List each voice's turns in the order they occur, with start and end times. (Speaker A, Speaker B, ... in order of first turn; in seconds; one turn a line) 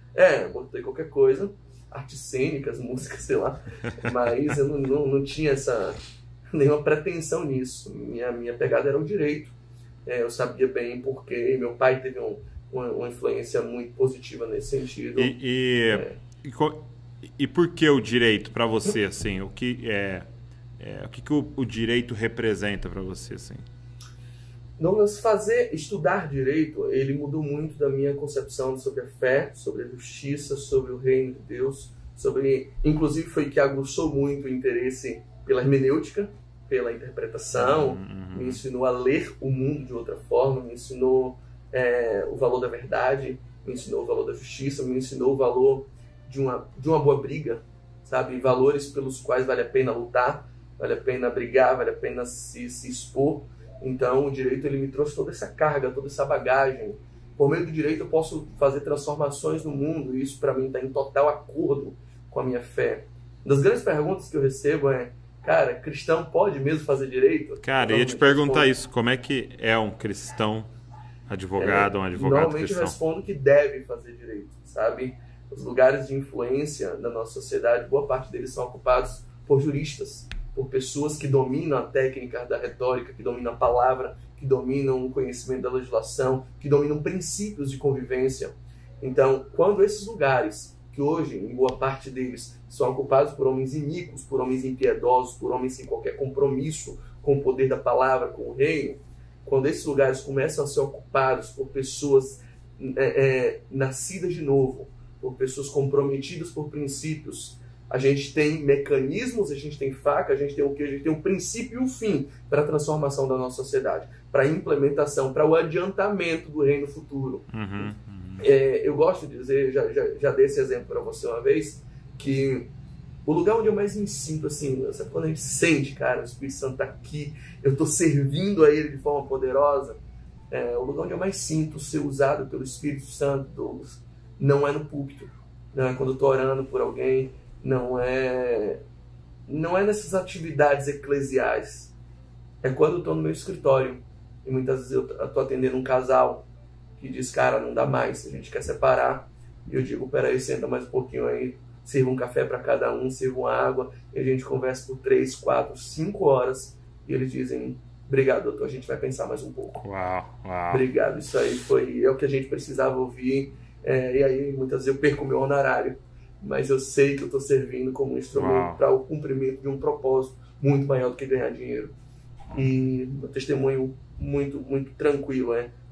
Speaker A: 0.1-6.0
Speaker A: 6.5-9.6
Speaker A: 10.1-15.4
Speaker B: 15.2-23.7
Speaker A: 15.9-16.2
Speaker A: 24.8-68.7
Speaker B: 37.5-38.6
Speaker B: 67.6-70.7
Speaker B: 71.3-73.0
Speaker A: 71.6-122.7
Speaker B: 117.5-118.5
Speaker A: 123.3-130.0
Speaker A: 130.5-138.8
Speaker A: 139.5-141.9
Speaker A: 142.6-146.5
Speaker A: 147.0-159.8
Speaker B: 159.8-160.9
Speaker A: 160.7-171.9
Speaker B: 168.4-168.8
Speaker A: 172.5-175.7